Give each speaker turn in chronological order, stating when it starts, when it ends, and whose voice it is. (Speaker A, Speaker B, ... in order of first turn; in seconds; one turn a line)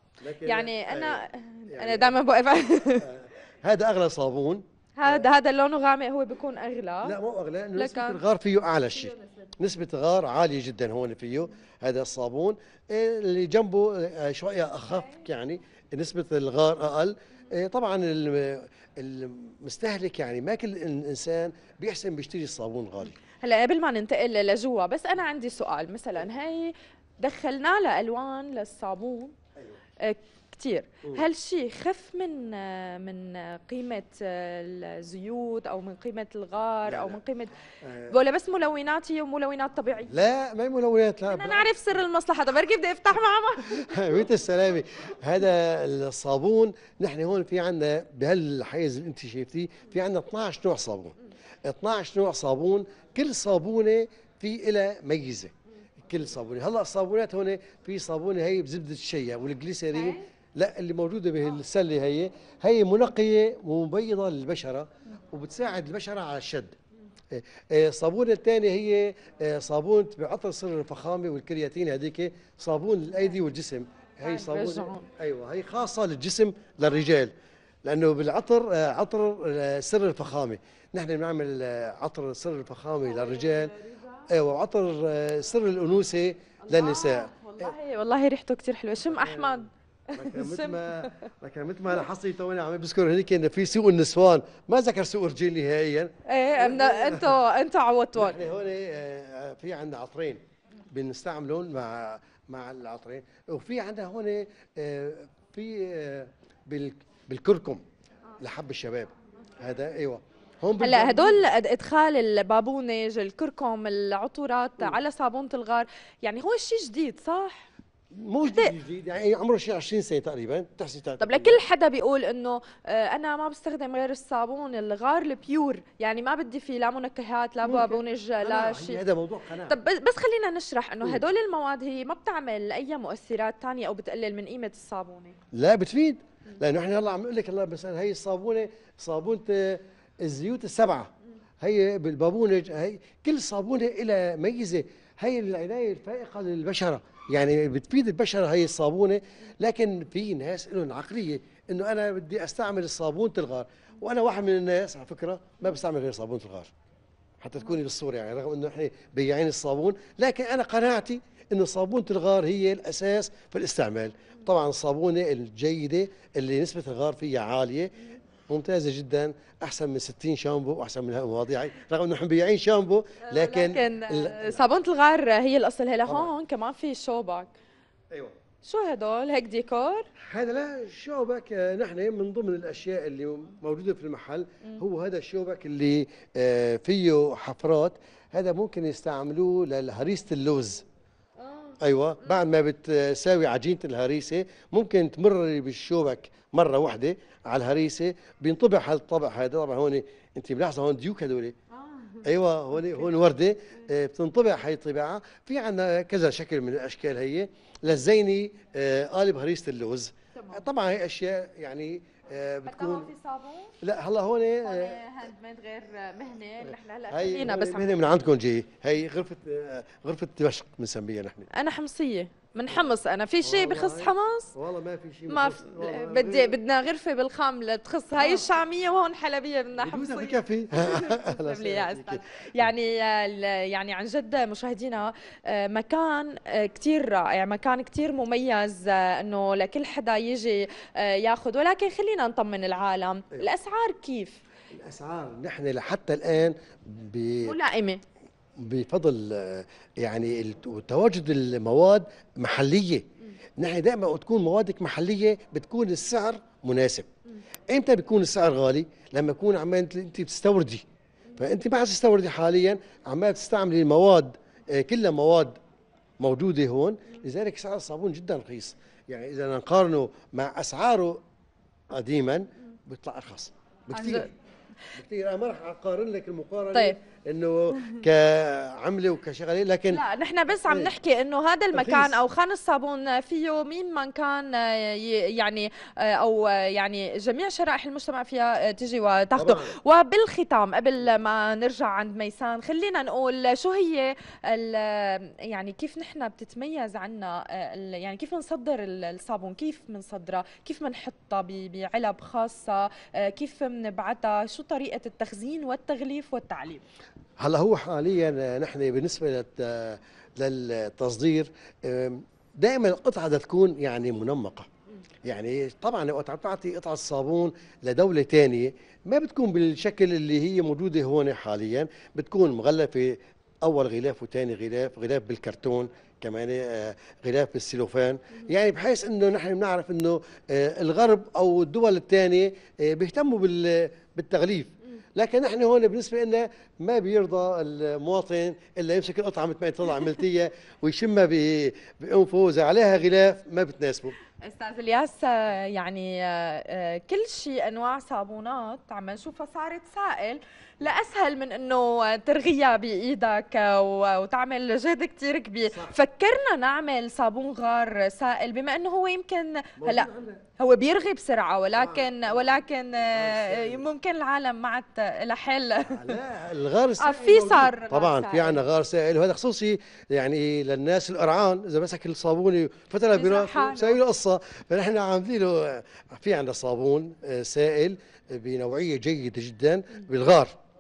Speaker A: 0.2-2.2
Speaker B: 0.5-3.1
Speaker A: 2.9-5.3
Speaker B: 5.0-7.2
Speaker A: 7.0-23.2
Speaker B: 7.8-8.2
Speaker B: 23.4-29.3
Speaker B: 30.0-37.6
Speaker A: 36.9-37.2
Speaker A: 37.8-38.1
Speaker B: 38.1-40.1
Speaker A: 40.1-41.7
Speaker B: 41.3-44.2
Speaker A: 43.7-66.8
Speaker B: 60.0-60.2
Speaker A: 67.3-77.3
Speaker B: 74.2-75.1
Speaker A: 77.8-83.7
Speaker B: 83.2-84.2
Speaker A: 84.3-87.7
Speaker B: 86.7-91.2
Speaker A: 89.1-97.4
Speaker B: 96.3-98.4
Speaker A: 98.1-107.8
Speaker A: 108.4-111.4
Speaker B: 110.8-117.7
Speaker A: 118.1-121.6
Speaker B: 121.2-129.0
Speaker A: 127.6-129.8
Speaker B: 129.7-135.4
Speaker A: 135.5-156.7
Speaker A: 157.4-167.9
Speaker A: 168.5-174.6
Speaker B: 173.3-177.5
Speaker A: 176.1-176.3
Speaker A: 178.1-178.3
Speaker B: 178.6-180.1
Speaker A: 180.2-190.8
Speaker B: 191.4-192.4
Speaker A: 191.8-201.6
Speaker B: 201.8-202.2
Speaker A: 202.2-213.1
Speaker B: 210.4-210.6
Speaker B: 212.7-213.7
Speaker A: 213.8-215.1
Speaker B: 214.7-217.9
Speaker A: 216.6-221.5
Speaker B: 221.5-224.5
Speaker A: 223.4-226.6
Speaker B: 225.3-244.4
Speaker A: 228.2-228.5
Speaker A: 229.8-232.7
Speaker A: 244.7-247.6
Speaker B: 247.4-248.0
Speaker A: 248.6-253.1
Speaker A: 253.6-257.1
Speaker A: 257.7-260.9
Speaker A: 261.4-265.6
Speaker A: 266.2-271.2
Speaker A: 271.9-274.3
Speaker B: 273.9-274.3
Speaker A: 274.9-280.1
Speaker B: 279.9-306.8
Speaker A: 280.6-280.9
Speaker A: 281.7-282.2
Speaker A: 289.4-289.8
Speaker A: 307.4-314.7
Speaker A: 315.2-344.1
Speaker B: 344.4-366.2
Speaker A: 355.7-356.0
Speaker A: 359.8-360.5
Speaker A: 361.7-363.9
Speaker A: 365.9-380.6
Speaker B: 367.0-368.6
Speaker B: 373.1-374.0